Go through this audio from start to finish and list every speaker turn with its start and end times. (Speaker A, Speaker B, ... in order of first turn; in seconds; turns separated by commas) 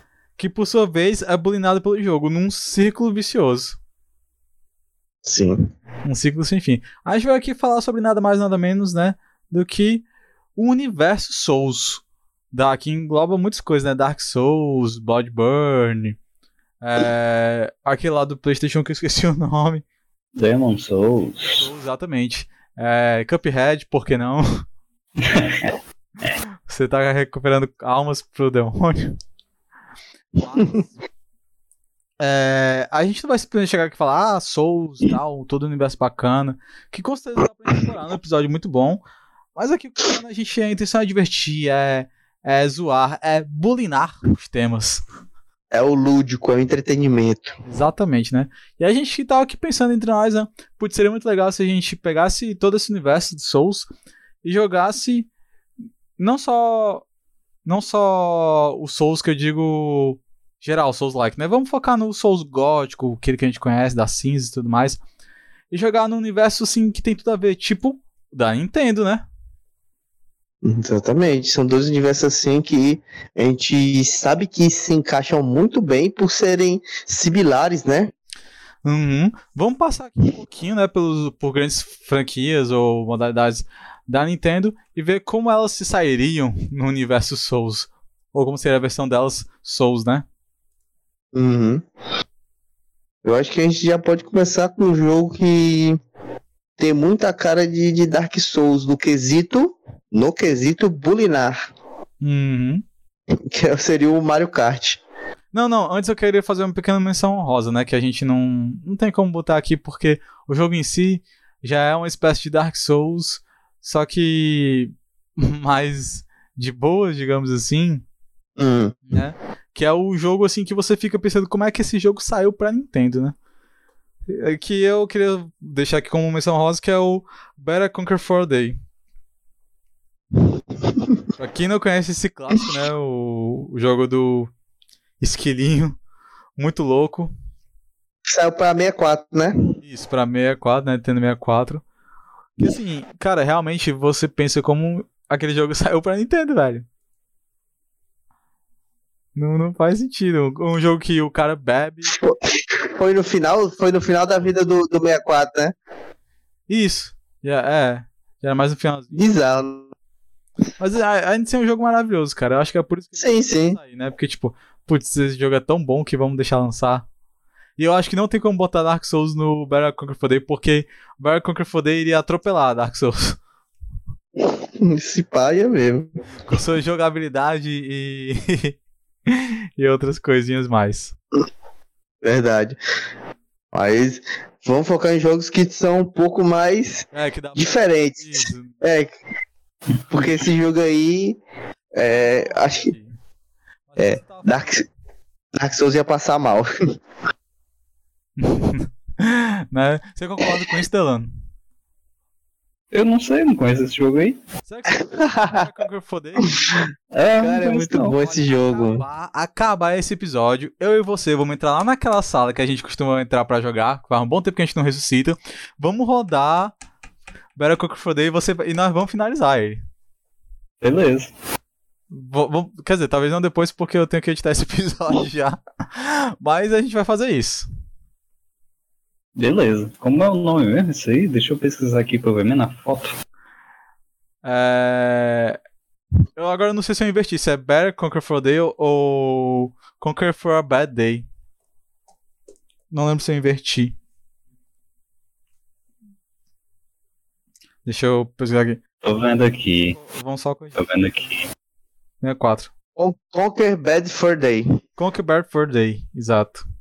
Speaker A: 0.4-3.8, Speaker B: 5.2-5.7, Speaker A: 6.0-16.2, Speaker A: 16.8-19.8, Speaker C: 20.4-21.7, Speaker A: 21.4-24.6, Speaker C: 25.2-25.8, Speaker A: 26.7-29.2, Speaker A: 30.4-30.9, Speaker A: 32.2-39.0, Speaker A: 39.6-45.0, Speaker B: 45.7-47.5, Speaker A: 47.6-53.9, Speaker A: 54.4-55.3, Speaker A: 56.2-57.0, Speaker A: 57.6-65.0, Speaker A: 65.7-69.3, Speaker B: 70.6-78.1, Speaker A: 78.8-90.2, Speaker B: 91.3-91.8, Speaker B: 93.2-96.0, Speaker B: 96.8-101.6, Speaker A: 102.2-102.8, Speaker B: 103.5-105.0, Speaker A: 105.5-118.0, Speaker B: 118.6-119.0, Speaker A: 119.1-123.3, Speaker A: 124.3-128.8, Speaker B: 131.0-131.2, Speaker A: 131.4-134.5, Speaker A: 135.2-136.0, Speaker A: 136.6-137.3, Speaker B: 138.3-139.6, Speaker A: 139.8-141.8, Speaker A: 142.6-146.9, Speaker A: 149.4-152.2, Speaker B: 153.0-155.8, Speaker A: 156.7-159.2, Speaker B: 159.1-159.9, Speaker A: 160.8-167.1, Speaker B: 163.2-163.8, Speaker A: 167.8-173.4, Speaker B: 174.4-176.1, Speaker A: 176.4-178.8, Speaker A: 179.3-181.1, Speaker B: 182.2-182.8, Speaker B: 183.7-189.2, Speaker A: 187.1-188.8, Speaker B: 190.1-191.4, Speaker B: 191.9-192.9, Speaker A: 192.1-193.2, Speaker A: 193.9-194.7, Speaker B: 194.0-194.9, Speaker B: 195.6-196.7, Speaker A: 198.4-201.3, Speaker C: 202.9-204.4, Speaker A: 204.7-206.8, Speaker B: 204.9-205.7, Speaker B: 206.5-206.8, Speaker C: 207.1-208.2, Speaker B: 207.4-209.0, Speaker A: 208.1-216.8, Speaker A: 217.6-219.8, Speaker C: 220.8-221.3, Speaker A: 222.1-227.7, Speaker C: 229.4-233.2, Speaker A: 234.4-235.6, Speaker A: 236.4-241.3, Speaker A: 242.9-244.0, Speaker A: 247.9-248.8, Speaker C: 249.0-250.0, Speaker A: 249.9-250.9, Speaker C: 250.8-251.4, Speaker A: 252.2-252.7, Speaker B: 253.0-254.7, Speaker A: 255.0-256.6